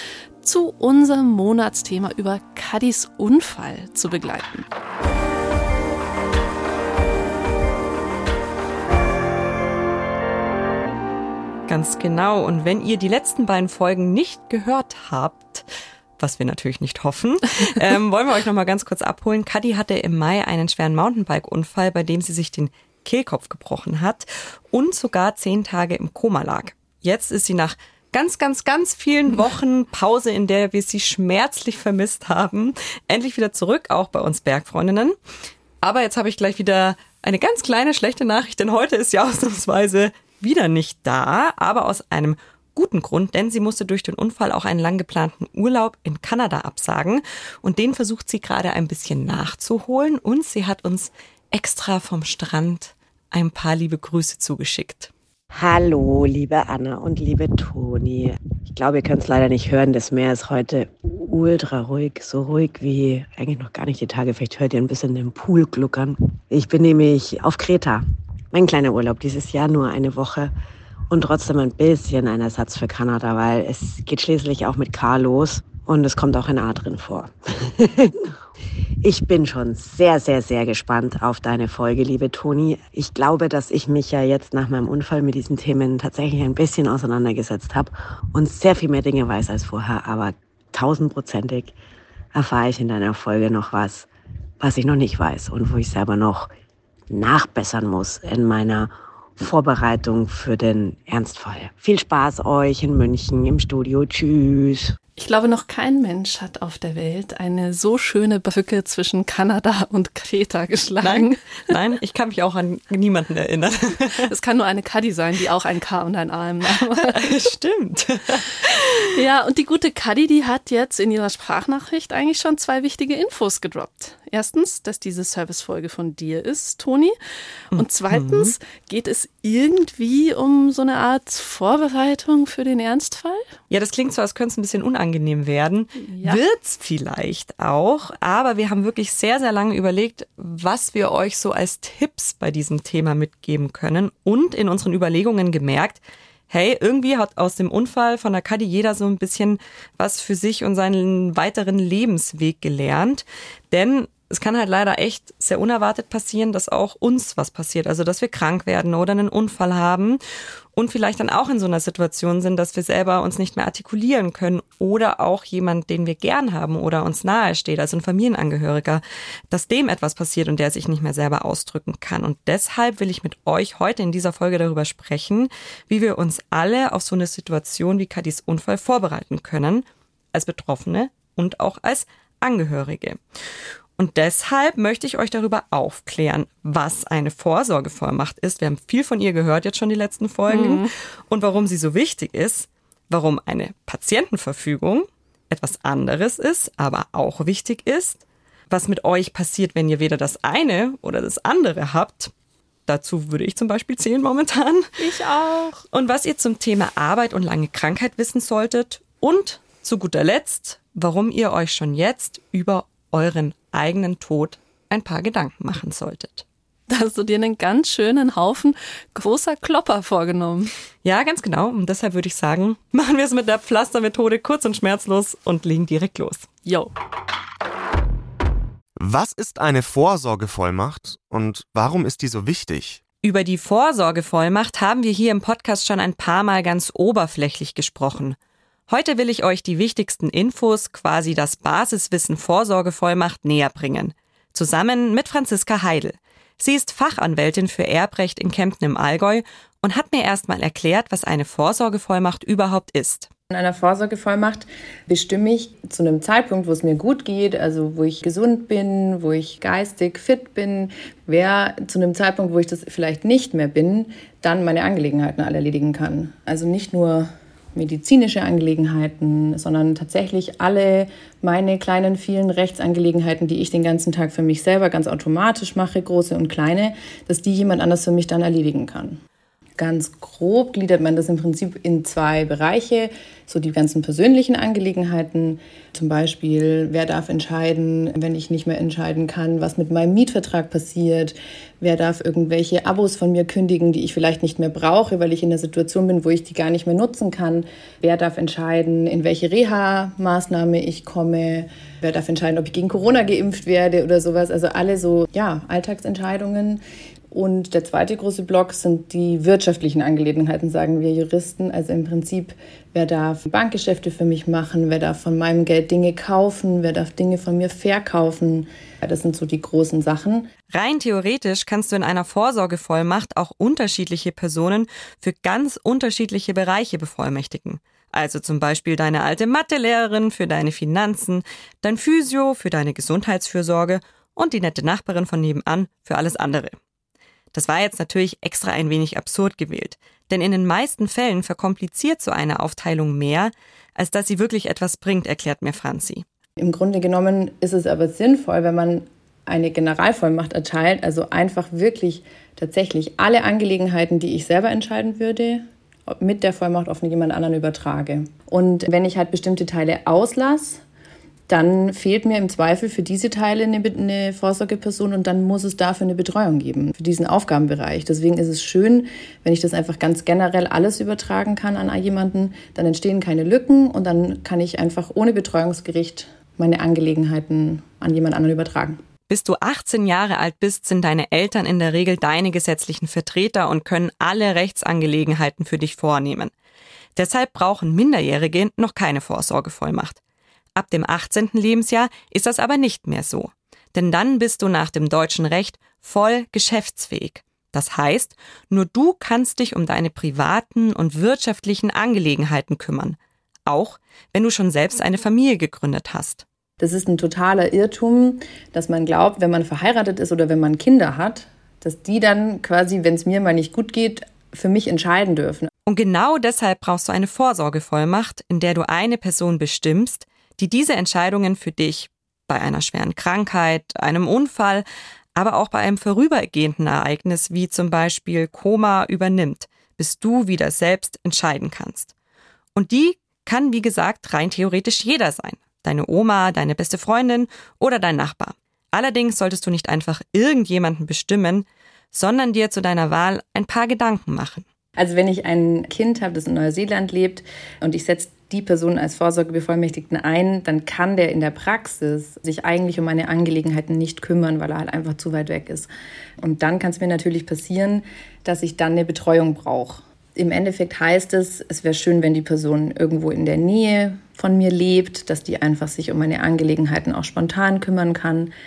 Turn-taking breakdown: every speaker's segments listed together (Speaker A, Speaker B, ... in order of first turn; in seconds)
Speaker A: 0.4-4.7, 105.2-111.7, 114.2-117.3, 119.1-127.1, 127.7-133.4, 136.0-136.4, 190.5-190.9, 205.0-205.8, 216.9-220.7, 226.6-226.9
Speaker B: 11.7-15.7, 16.2-35.1, 35.8-55.1, 111.0-114.3, 116.9-119.1, 127.7-128.5, 133.7-160.2, 160.7-183.2, 184.0-202.3, 202.9-205.2, 205.8-216.4, 221.0-226.5, 233.2-238.4, 238.9-253.3, 320.7-336.8, 337.5-346.2, 379.3-386.5, 387.1-390.2, 390.8-406.4, 415.9-432.1, 432.7-444.6
Speaker C: 55.5-70.5, 71.1-78.3, 79.0-91.7, 92.3-94.1, 94.6-96.5, 97.1-105.0
Speaker D: 229.0-233.0
Speaker E: 253.5-279.2, 279.8-320.5, 346.6-360.8, 361.5-379.0, 406.8-415.7, 445.0-455.9, 456.4-468.5